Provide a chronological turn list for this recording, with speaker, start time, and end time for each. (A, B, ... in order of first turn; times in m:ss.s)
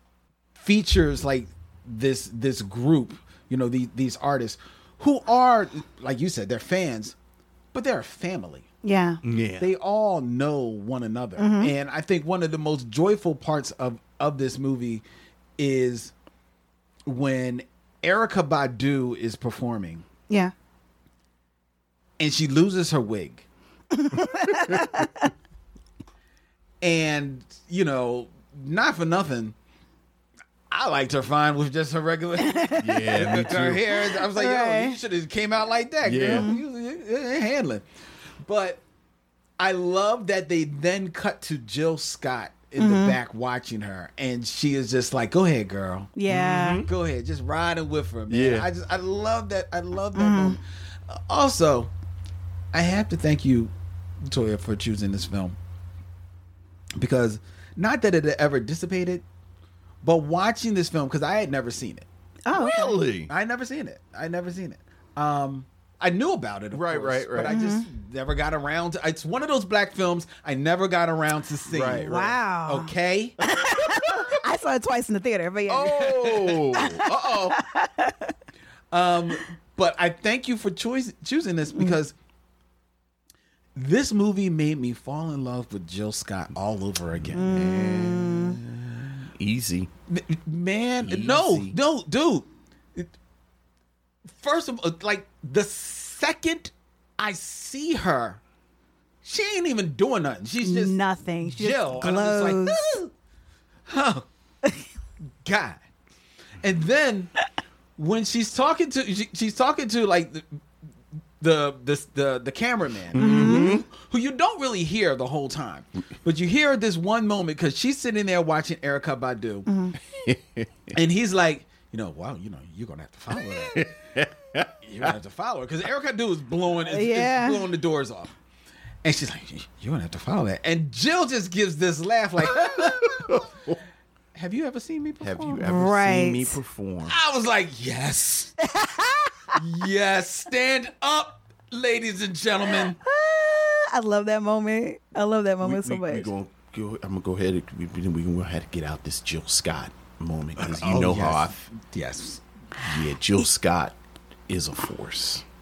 0:00.5-0:07.2 A
0:07.7-0:08.7 A
0:08.8-0:09.2 B
0:09.2-0:09.7 C
0:09.6-0:15.0 A
0:11.4-0:11.7 B
0:15.6-0:16.1 A
0:17.0-0:20.0 A
0:22.2-0:23.4 A
0:23.9-0:25.2 B
0:26.8-0:29.5 A
0:30.7-0:37.8 A
0:32.4-0:32.8 B
0:32.8-0:34.0 C
0:34.3-0:35.0 B
0:36.0-0:36.5 C
0:36.3-0:36.6 B
0:38.4-0:38.8 A
0:39.6-0:51.9 A
0:42.8-0:43.2 B
0:46.2-0:46.8 B
0:46.3-0:46.9 C
0:48.3-0:48.7 C
0:50.1-0:50.6 B
0:52.7-0:53.7 A
0:54.2-0:55.6 A
0:57.0-0:59.2 A
1:00.0-1:02.0 A
1:02.5-1:03.0 B
1:02.5-1:03.3 C
1:03.3-1:13.4 A
1:06.7-1:07.5 C
1:07.5-1:07.9 B
1:11.7-1:12.1 C
1:12.0-1:12.9 B
1:13.4-1:18.3 B
1:15.7-1:17.6 C
1:18.9-1:22.1 A
1:23.7-1:27.6 A
1:27.3-1:28.6 B
1:27.4-1:29.9 C
1:30.1-1:33.1 A
1:31.0-1:31.7 C
1:34.3-1:38.4 A
1:39.2-1:43.1 A
1:40.6-1:42.8 B
1:43.8-1:44.3 A
1:45.4-1:45.8 A
1:46.6-1:47.3 A
1:48.0-1:50.5 A
1:51.4-1:59.7 A
1:53.1-1:53.8 C
1:53.2-1:53.8 B
1:59.7-2:00.0 B
2:00.2-2:00.7 C
2:00.9-2:03.9 A
2:03.7-2:05.1 C
2:04.8-2:08.3 A
2:06.9-2:07.6 B
2:09.0-2:13.4 A
2:12.5-2:13.8 C
2:14.3-2:15.6 A
2:15.2-2:17.2 C
2:15.6-2:16.6 B
2:17.0-2:18.5 A
2:18.6-2:19.6 B
2:19.5-2:23.0 A
2:23.0-2:26.3 B
2:25.6-2:31.6 C
2:30.6-2:32.4 A
2:32.8-2:33.9 C
2:34.5-2:35.4 C